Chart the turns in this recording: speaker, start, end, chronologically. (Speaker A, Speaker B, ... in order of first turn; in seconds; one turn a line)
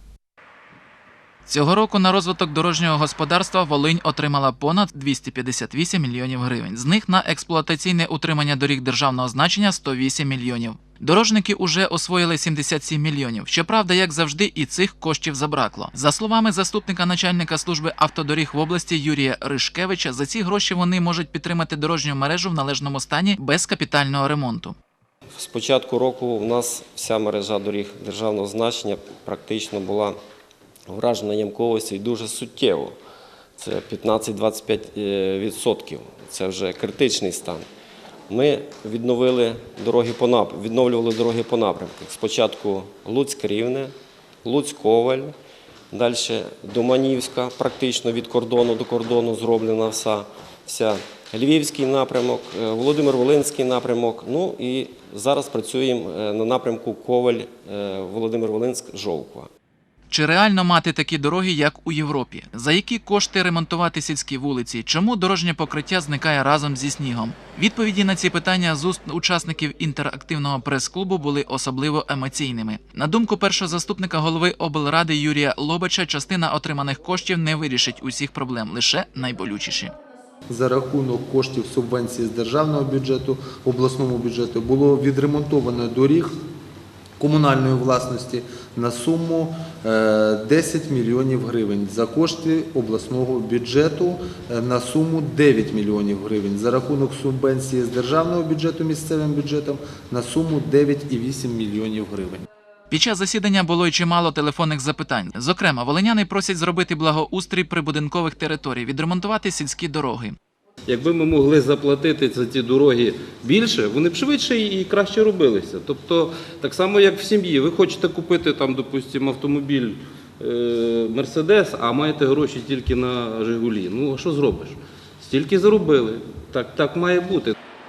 Speaker A: 1.5-24.8
Speaker B: 25.3-30.2
Speaker B: 30.9-33.0
Speaker B: 33.6-37.6
Speaker B: 38.3-45.3
Speaker B: 45.9-59.5
Speaker A: 60.1-80.0
Speaker C: 80.5-86.4
Speaker C: 87.2-102.5
Speaker A: 102.9-110.4
Speaker D: 110.9-127.5